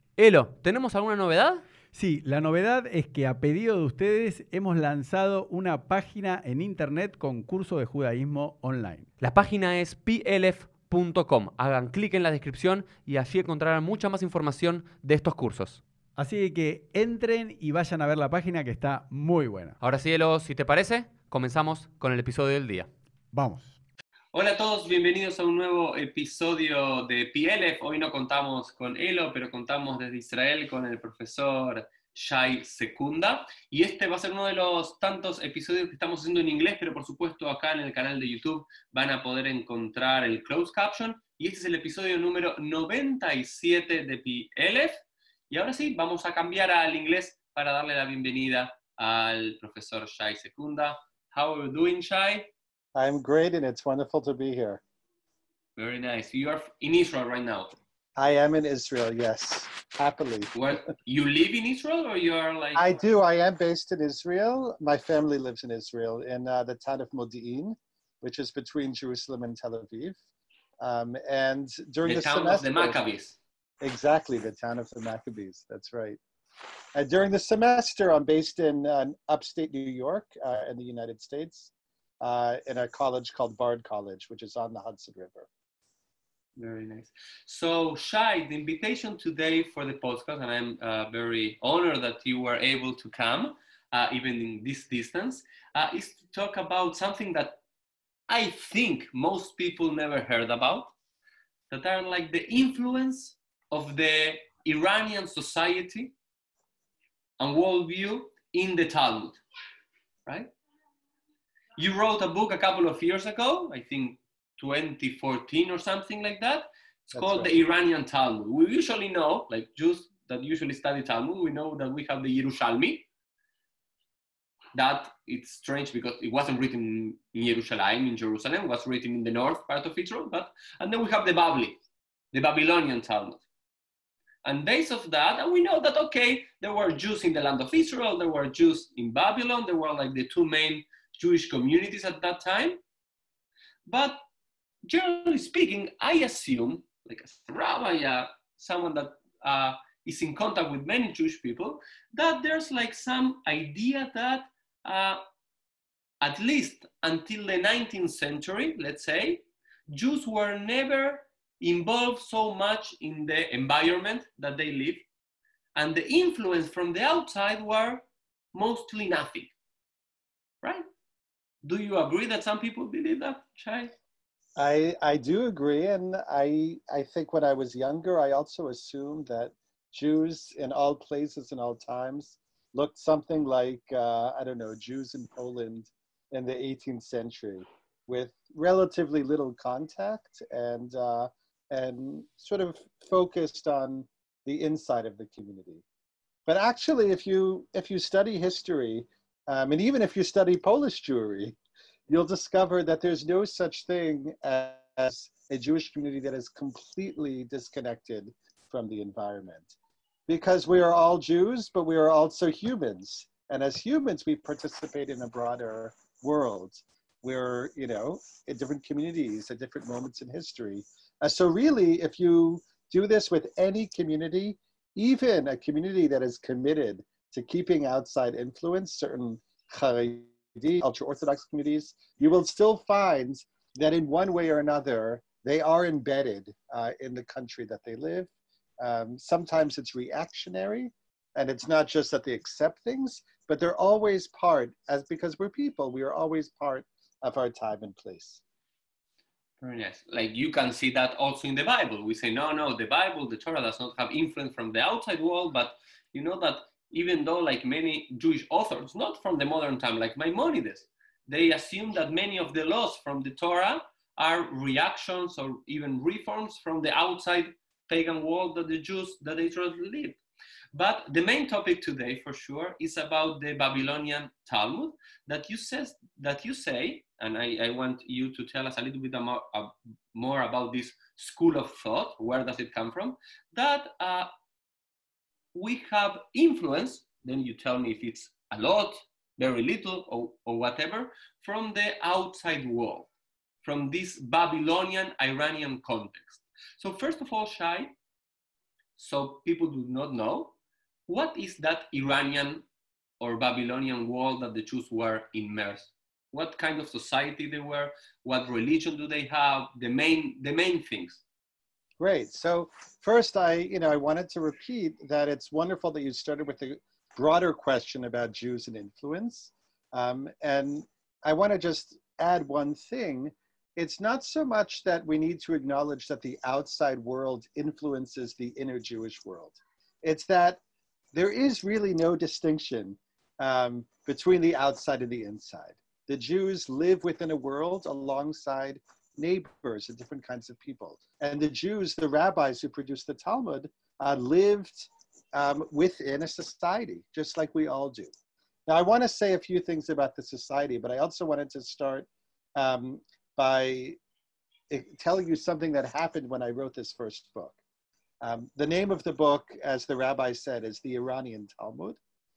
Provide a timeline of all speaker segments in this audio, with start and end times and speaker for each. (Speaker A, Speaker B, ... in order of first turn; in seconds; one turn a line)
Speaker A: 0.2-1.6
Speaker B: 1.9-9.1
Speaker A: 9.2-15.8
Speaker B: 16.2-19.8
Speaker A: 19.8-22.9
Speaker B: 23.3-23.7
Speaker C: 24.3-52.5
Speaker D: 53.0-54.8
Speaker C: 55.8-57.8
Speaker D: 58.2-60.5
Speaker C: 60.5-63.0
Speaker D: 62.8-70.2
Speaker D: 70.8-73.0
Speaker C: 72.0-73.4
Speaker D: 73.8-76.2
Speaker D: 76.9-81.7
Speaker D: 82.2-85.5
Speaker C: 86.6-97.6
Speaker C: 98.3-100.9
Speaker C: 101.7-106.1
Speaker C: 107.4-109.4
Speaker C: 110.3-110.5
Speaker C: 111.8-123.1
Speaker D: 117.1-117.6
Speaker C: 124.8-131.8
Speaker C: 132.3-133.4
Speaker C: 134.4-142.8
Speaker C: 143.9-144.2
Speaker C: 144.8-155.2
Speaker C: 156.2-165.0
Speaker C: 165.8-169.5
Speaker C: 171.6-173.9
Speaker D: 174.6-195.8
Speaker D: 196.5-201.6
Speaker D: 202.1-209.7
Speaker D: 210.3-248.4
Speaker C: 249.6-270.2
Speaker C: 270.7-284.3
Speaker C: 285.5-293.1
Speaker C: 293.6-297.9
Speaker C: 299.0-300.5
Speaker C: 301.1-302.6
Speaker C: 303.2-311.2
Speaker D: 312.0-330.6
Speaker D: 331.1-348.1
Speaker D: 348.7-354.0
Speaker D: 354.7-357.6
Speaker D: 358.2-362.0